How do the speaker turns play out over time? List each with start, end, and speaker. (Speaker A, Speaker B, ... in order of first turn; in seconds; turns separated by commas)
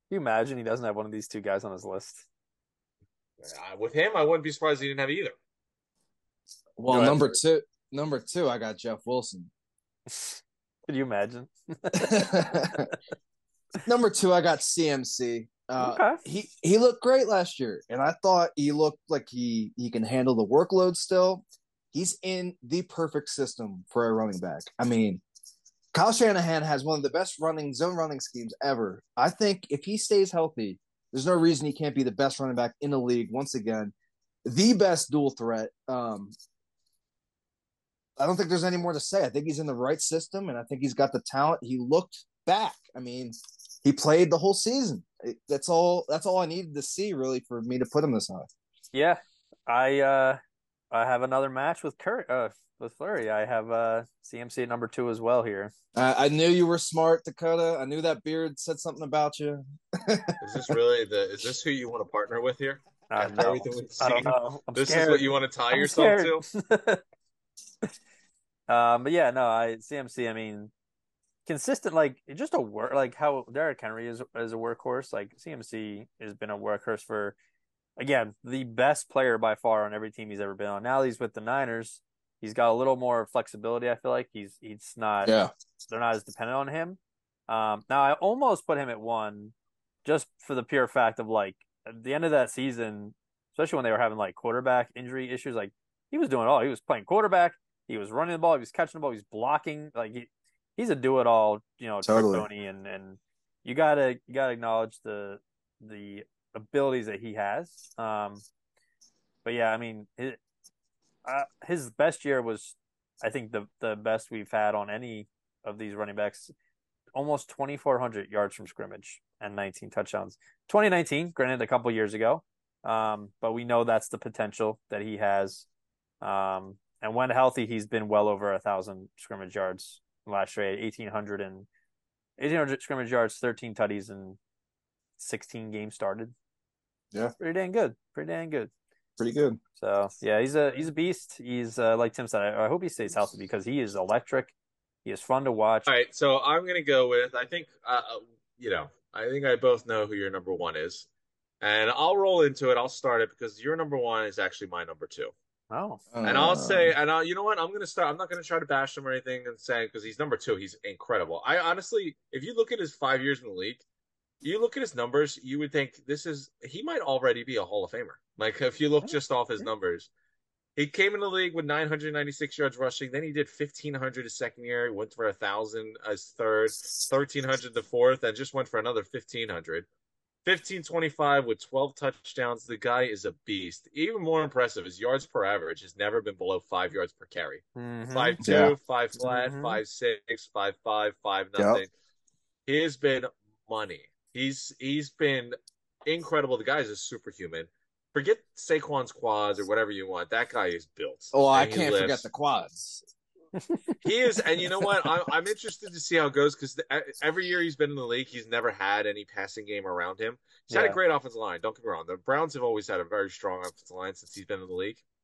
Speaker A: 0.1-2.2, Speaker B: 3.4-5.3, Speaker C: 6.8-9.5, Speaker A: 6.9-7.4, Speaker A: 10.1-12.9, Speaker C: 11.9-12.9, Speaker C: 13.8-25.2, Speaker A: 15.8-16.2, Speaker C: 25.9-33.9, Speaker C: 34.4-36.3, Speaker C: 38.2-48.5, Speaker A: 48.9-50.4, Speaker A: 50.9-55.7, Speaker C: 55.9-60.7, Speaker B: 60.4-66.4, Speaker A: 63.1-67.0, Speaker A: 68.7-70.7, Speaker A: 71.4-77.3, Speaker A: 78.0-89.5, Speaker C: 85.2-85.5, Speaker A: 90.0-108.4, Speaker C: 102.0-102.5, Speaker A: 109.4-110.4, Speaker A: 111.2-116.5, Speaker A: 117.1-125.7, Speaker A: 126.2-131.7, Speaker A: 132.4-134.4, Speaker A: 135.2-136.3, Speaker A: 137.4-138.7, Speaker C: 139.2-139.6, Speaker A: 139.8-144.5, Speaker A: 145.0-145.9, Speaker B: 145.9-151.1, Speaker B: 151.6-155.3, Speaker A: 155.7-156.0, Speaker C: 156.1-156.9, Speaker B: 156.2-163.8, Speaker B: 164.4-170.1, Speaker B: 170.8-179.9, Speaker B: 180.4-191.9, Speaker A: 187.8-188.4, Speaker C: 188.4-188.8, Speaker A: 189.2-189.8, Speaker C: 191.6-191.8, Speaker B: 192.7-202.3, Speaker C: 201.3-203.0, Speaker A: 203.6-203.9, Speaker B: 204.0-215.0, Speaker A: 210.7-211.0